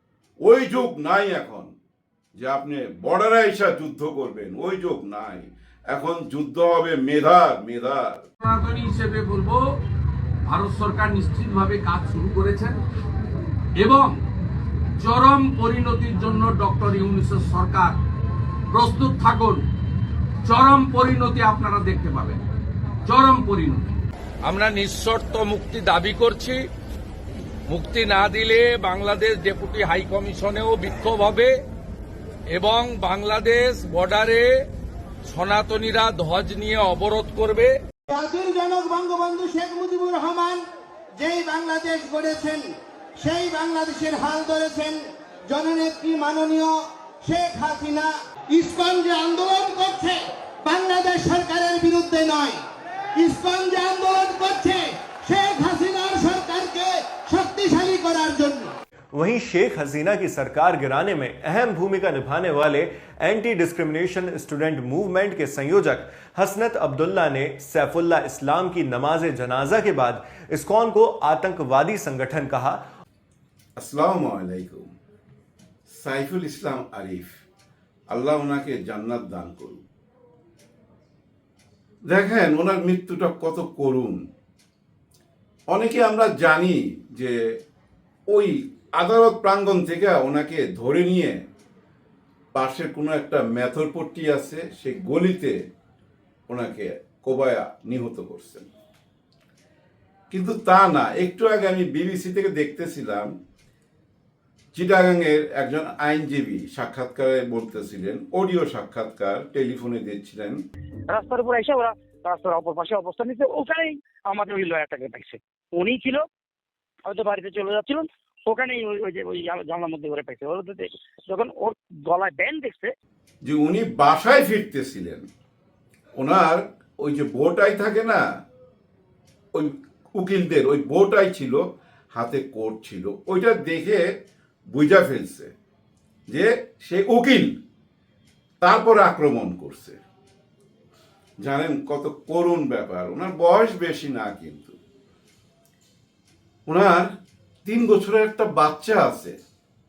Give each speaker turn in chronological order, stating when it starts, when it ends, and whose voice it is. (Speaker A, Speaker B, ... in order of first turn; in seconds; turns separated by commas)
Speaker A: 0.4-1.7, Speaker A: 2.4-8.2, Speaker B: 8.4-9.6, Speaker B: 10.5-12.8, Speaker B: 13.8-14.2, Speaker B: 15.0-18.0, Speaker B: 18.7-19.6, Speaker B: 20.4-22.4, Speaker B: 23.1-23.9, Speaker B: 24.4-26.6, Speaker B: 27.7-31.6, Speaker B: 32.5-34.6, Speaker B: 35.3-37.7, Speaker C: 38.1-40.6, Speaker C: 41.2-52.6, Speaker C: 53.2-58.7, Speaker D: 59.1-72.8, Speaker A: 73.8-74.9, Speaker A: 75.9-77.4, Speaker A: 78.1-79.8, Speaker A: 82.1-84.2, Speaker A: 85.7-87.4, Speaker A: 88.3-91.4, Speaker A: 92.5-95.5, Speaker A: 96.5-98.7, Speaker A: 100.3-103.3, Speaker A: 104.7-110.6, Speaker E: 111.1-116.2, Speaker E: 117.1-122.9, Speaker A: 123.4-125.2, Speaker A: 126.2-128.2, Speaker A: 129.5-131.6, Speaker A: 132.1-134.0, Speaker A: 134.7-135.5, Speaker A: 136.3-137.5, Speaker A: 138.6-140.0, Speaker A: 141.4-144.8, Speaker A: 146.7-147.1, Speaker A: 147.7-149.4